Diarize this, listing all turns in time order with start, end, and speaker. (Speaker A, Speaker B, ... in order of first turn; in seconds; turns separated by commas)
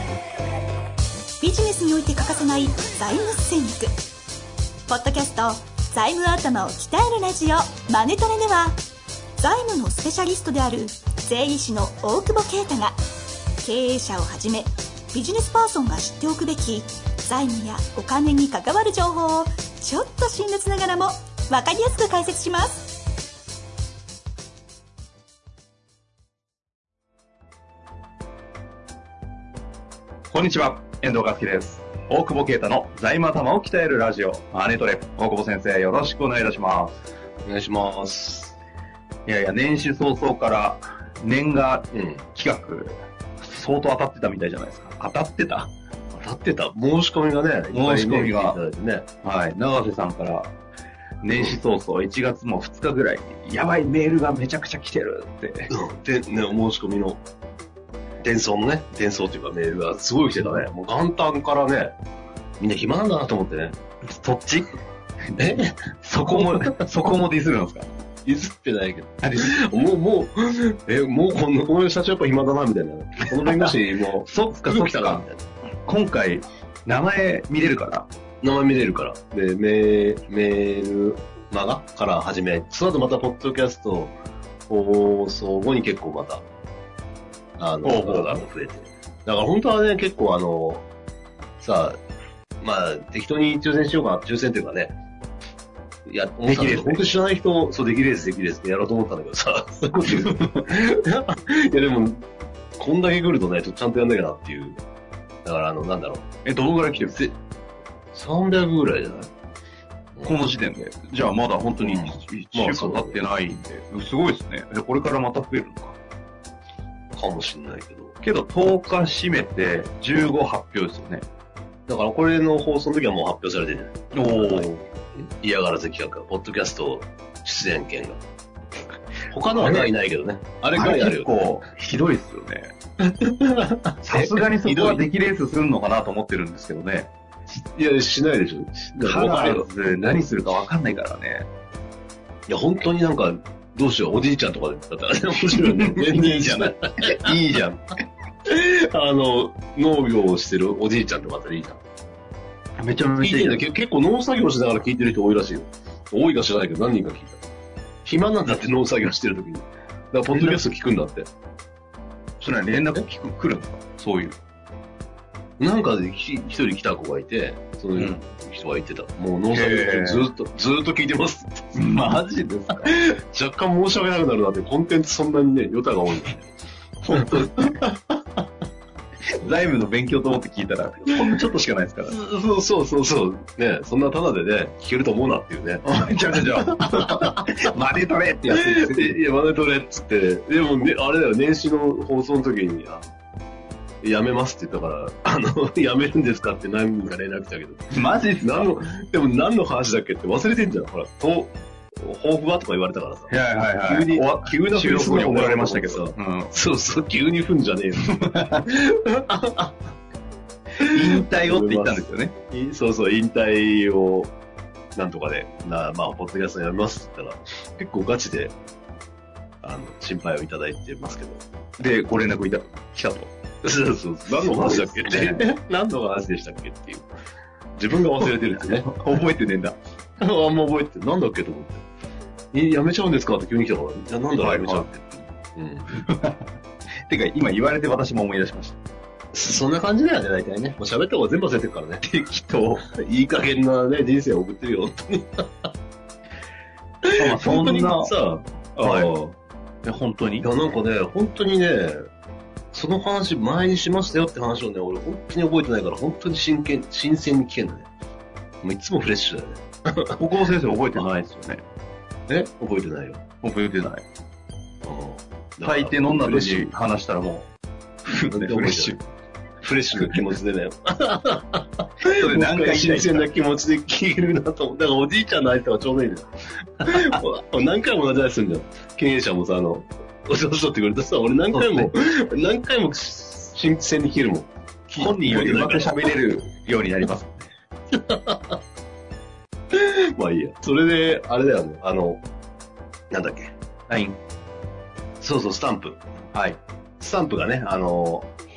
Speaker A: 1.4-3.9, Speaker A: 4.9-8.8, Speaker A: 9.4-13.0, Speaker A: 13.6-23.0, Speaker B: 30.3-37.0, Speaker C: 37.5-38.5, Speaker B: 39.2-45.7, Speaker C: 41.9-42.2, Speaker C: 46.1-49.1, Speaker B: 47.7-48.6, Speaker B: 49.2-50.5, Speaker B: 51.2-55.7, Speaker C: 55.7-57.2, Speaker C: 58.2-61.9, Speaker B: 60.4-60.6, Speaker C: 62.6-63.8, Speaker B: 64.1-64.7, Speaker B: 65.3-67.9, Speaker C: 65.4-66.8, Speaker C: 68.2-75.4, Speaker B: 69.2-69.6, Speaker B: 73.4-75.3, Speaker B: 75.8-78.1, Speaker C: 78.4-84.1, Speaker C: 84.7-86.4, Speaker C: 87.6-90.8, Speaker B: 87.8-88.4, Speaker C: 91.6-92.0, Speaker C: 92.6-94.9, Speaker C: 96.0-102.2, Speaker B: 96.5-97.0, Speaker B: 100.0-100.6, Speaker C: 102.8-104.8, Speaker C: 105.4-106.3, Speaker B: 106.4-107.3, Speaker C: 108.1-109.3, Speaker B: 110.2-116.0, Speaker C: 111.8-113.2, Speaker C: 117.1-118.1, Speaker B: 118.2-121.2, Speaker C: 121.9-128.2, Speaker B: 124.1-124.8, Speaker C: 129.3-131.3, Speaker B: 129.5-129.9, Speaker B: 130.7-132.7, Speaker C: 133.0-135.0, Speaker B: 134.0-137.1, Speaker C: 137.5-140.2, Speaker B: 139.0-141.5, Speaker C: 142.5-147.3, Speaker B: 145.4-148.0, Speaker C: 148.4-151.8, Speaker B: 152.8-153.6, Speaker C: 153.2-157.4, Speaker C: 158.0-161.3, Speaker B: 160.3-160.6, Speaker B: 162.4-164.3, Speaker C: 165.6-171.7, Speaker B: 167.9-168.2, Speaker B: 169.5-170.3, Speaker B: 171.7-173.0, Speaker C: 172.9-176.5, Speaker B: 177.0-177.8, Speaker C: 177.1-178.2, Speaker B: 179.3-182.2, Speaker C: 182.1-187.4, Speaker B: 185.9-189.2, Speaker C: 188.5-193.1, Speaker C: 194.0-197.8, Speaker B: 197.9-198.8, Speaker C: 198.4-203.3, Speaker B: 203.3-206.5, Speaker C: 203.8-209.8, Speaker B: 207.9-208.7, Speaker B: 210.8-212.3, Speaker C: 210.8-214.3, Speaker C: 214.9-218.5, Speaker C: 219.6-221.4, Speaker B: 221.8-223.3, Speaker C: 223.6-227.1, Speaker B: 224.5-225.4, Speaker C: 227.8-228.9, Speaker B: 228.2-229.8, Speaker C: 230.2-231.8, Speaker C: 232.5-235.9, Speaker B: 234.4-234.9, Speaker B: 235.9-236.4, Speaker B: 237.1-238.8, Speaker C: 239.3-242.0, Speaker B: 242.0-242.8, Speaker C: 242.8-245.7, Speaker C: 247.0-249.3, Speaker B: 247.2-248.1, Speaker B: 248.8-249.1, Speaker B: 249.8-250.5, Speaker C: 250.4-252.0, Speaker C: 252.7-257.9, Speaker C: 258.6-260.2, Speaker B: 260.2-261.6, Speaker C: 262.3-263.2, Speaker B: 263.4-264.0, Speaker C: 264.8-266.7, Speaker B: 265.6-267.5, Speaker B: 268.0-269.0, Speaker C: 268.2-269.0, Speaker C: 269.6-276.3, Speaker B: 270.0-270.3, Speaker B: 272.1-273.3, Speaker C: 276.8-286.1, Speaker B: 276.8-277.2, Speaker B: 281.5-281.9, Speaker B: 284.9-287.5, Speaker C: 287.9-288.6, Speaker C: 289.7-292.2, Speaker C: 293.1-293.5, Speaker B: 293.9-294.2, Speaker C: 295.2-296.0, Speaker B: 296.3-296.6, Speaker C: 297.0-298.3